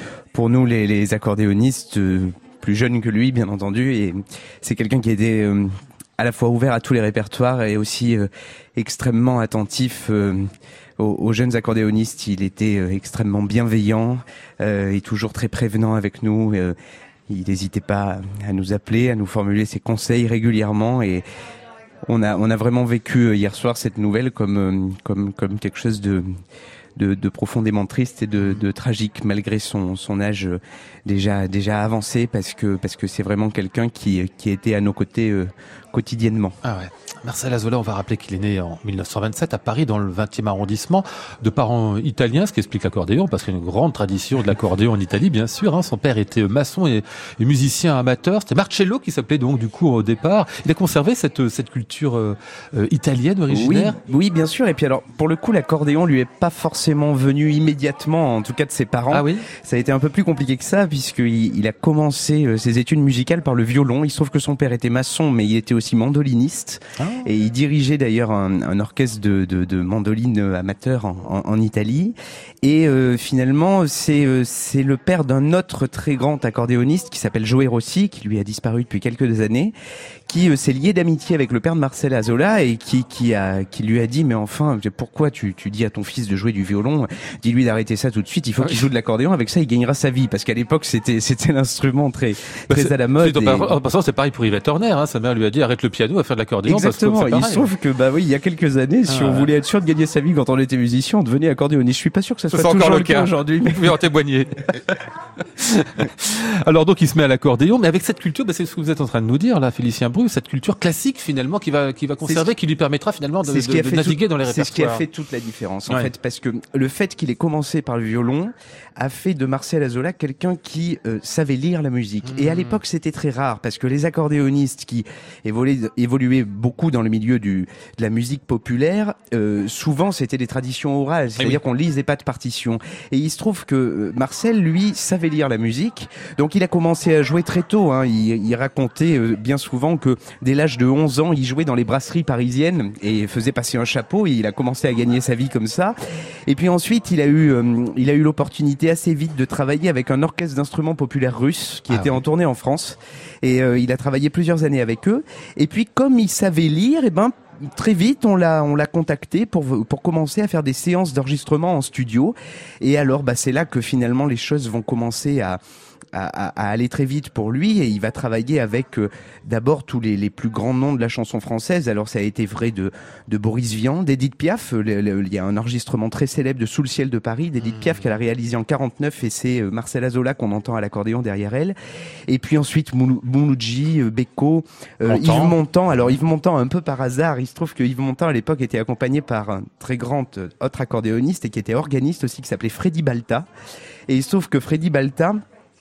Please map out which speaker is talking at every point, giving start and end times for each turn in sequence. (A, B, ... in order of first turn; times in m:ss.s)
0:00.3-0:16.8 A
0:17.3-0:21.2 A
0:22.1-0:26.3 A
0:27.0-0:36.6 A
0:36.6-0:54.0 B
0:53.5-1:19.7 A
0:59.1-0:59.4 B
1:07.0-1:07.3 B
1:20.3-1:33.8 A
1:28.6-1:28.9 B
1:32.7-1:37.7 B
1:36.6-1:44.0 A
1:39.1-1:39.5 B
1:42.5-1:55.0 B
1:52.2-1:52.5 A
1:53.4-2:26.0 A
2:02.3-2:02.8 B
2:26.5-2:45.6 A
2:31.9-2:32.2 B
2:46.1-3:01.8 A
2:57.6-2:58.2 B
3:02.3-3:13.5 A
3:05.0-3:06.1 B
3:14.1-3:15.4 A